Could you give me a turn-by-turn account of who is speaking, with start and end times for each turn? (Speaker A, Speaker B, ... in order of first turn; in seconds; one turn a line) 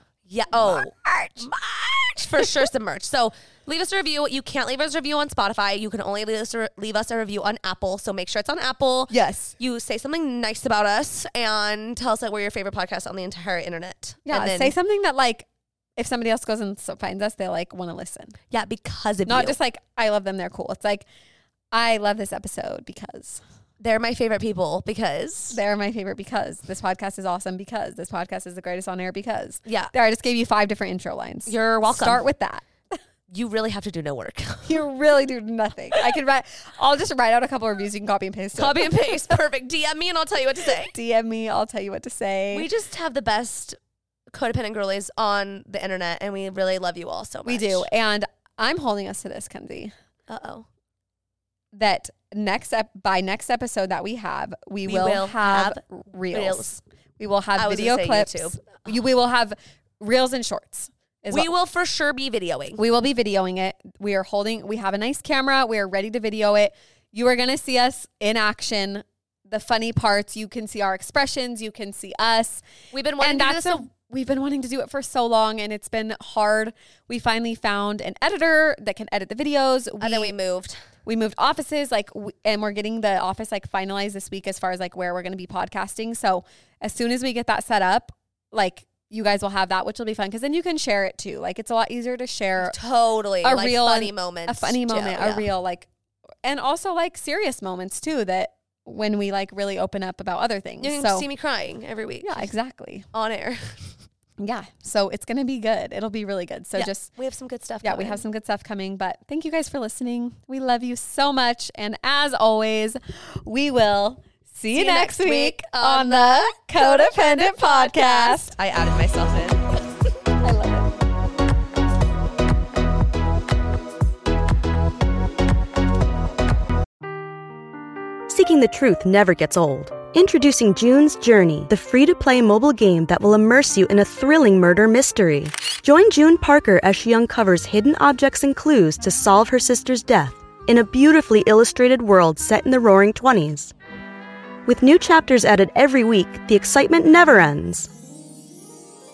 Speaker A: 0.3-14.7
Speaker B: 0.5-1.5
Speaker B: 2.4-2.6
Speaker B: 9.1-9.6
Speaker B: 14.3-18.4
Speaker A: 18.5-19.6
Speaker B: 19.3-21.1
Speaker B: 21.7-23.4
Speaker A: 23.8-25.6
Speaker B: 25.5-33.0
Speaker A: 29.7-29.9
Speaker A: 31.5-32.2
Speaker A: 33.3-34.8
Speaker B: 34.6-39.4
Speaker A: 38.6-41.0
Speaker B: 40.8-42.7
Speaker A: 42.5-43.8
Speaker A: 44.3-47.9
Speaker B: 47.5-49.9
Speaker A: 50.3-50.7
Speaker B: 51.7-61.5
Speaker A: 54.9-55.8
Speaker A: 56.3-56.8
Speaker A: 57.6-58.8
Speaker A: 61.3-62.8
Speaker B: 62.8-72.6
Speaker A: 72.9-73.9
Speaker B: 73.2-80.3
Speaker A: 80.0-80.8
Speaker B: 81.0-92.8
Speaker A: 92.6-95.5
Speaker B: 93.4-95.9
Speaker B: 96.4-101.3
Speaker A: 100.8-102.5
Speaker B: 102.2-103.1
Speaker A: 103.1-103.9
Speaker B: 104.4-107.1
Speaker A: 106.8-108.2
Speaker B: 107.8-118.5
Speaker A: 114.7-119.8
Speaker B: 120.4-120.9
Speaker C: 128.3-143.7
Speaker C: 144.7-147.9